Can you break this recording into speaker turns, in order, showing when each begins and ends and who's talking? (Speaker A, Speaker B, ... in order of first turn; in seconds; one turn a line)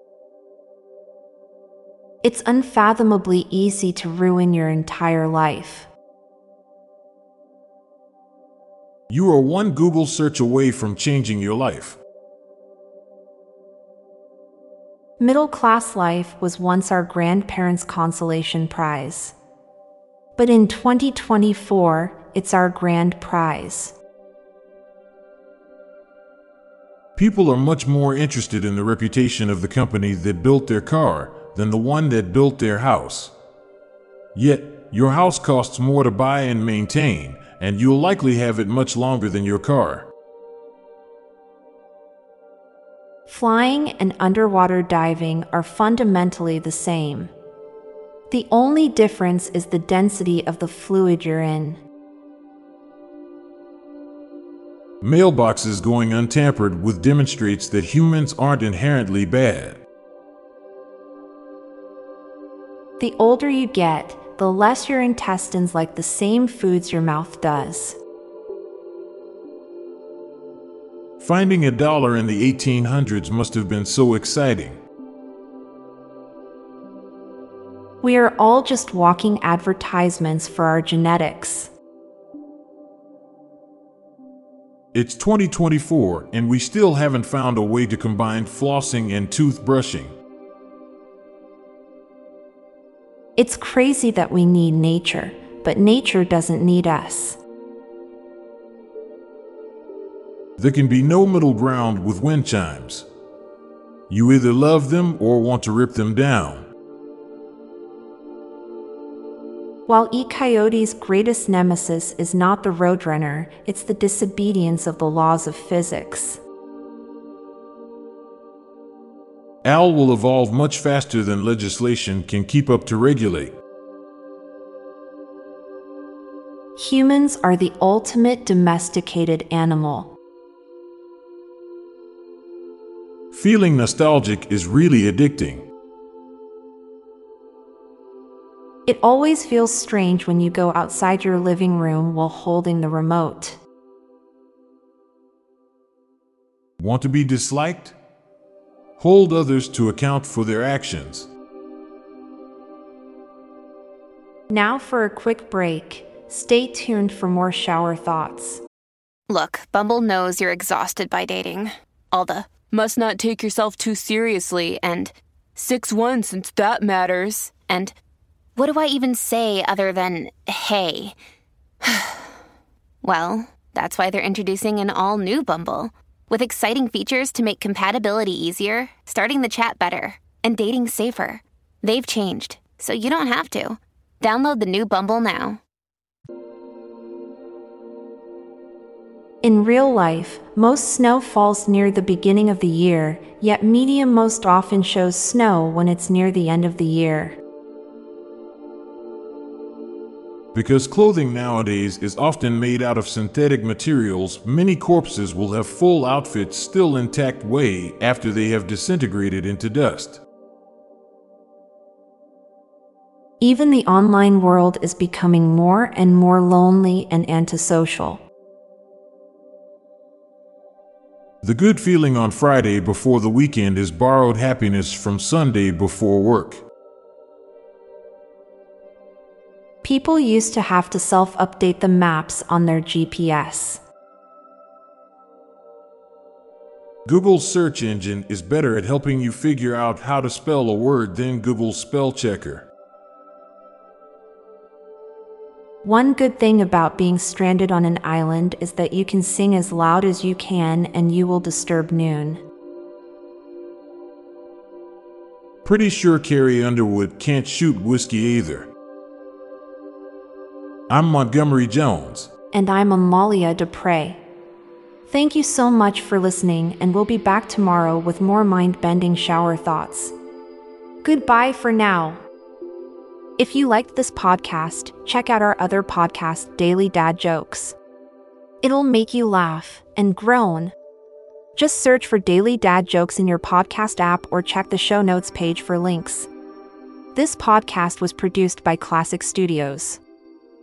Speaker A: 2.2-5.9
Speaker B: 9.1-12.0
Speaker A: 15.2-19.3
Speaker A: 20.4-23.9
Speaker B: 27.2-33.3
Speaker B: 34.3-40.1
Speaker A: 43.3-47.3
Speaker A: 48.3-51.8
Speaker B: 55.0-59.8
Speaker A: 63.0-68.0
Speaker B: 71.2-74.8
Speaker A: 78.0-81.7
Speaker B: 84.9-90.1
Speaker A: 93.3-97.4
Speaker B: 100.6-103.1
Speaker B: 104.1-106.7
Speaker A: 109.9-116.4
Speaker B: 119.6-123.5
Speaker A: 126.8-130.1
Speaker B: 133.3-135.6
Speaker A: 138.8-143.6
Speaker B: 146.8-147.9
Speaker B: 149.0-151.3
Speaker A: 154.5-158.6
Speaker C: 159.3-167.9
Speaker C: 168.6-171.1
Speaker C: 171.8-172.2
Speaker C: 173.0-185.6
Speaker A: 189.4-197.4
Speaker B: 200.5-210.2
Speaker A: 213.4-218.2
Speaker B: 221.4-226.6
Speaker A: 229.8-233.8
Speaker B: 237.0-242.7
Speaker A: 245.8-252.4
Speaker B: 255.6-258.7
Speaker B: 260.9-262.3
Speaker A: 262.5-264.2
Speaker A: 265.1-270.1
Speaker A: 271.0-272.2
Speaker A: 273.4-277.8
Speaker A: 278.6-280.7
Speaker A: 281.6-286.3
Speaker A: 287.1-290.0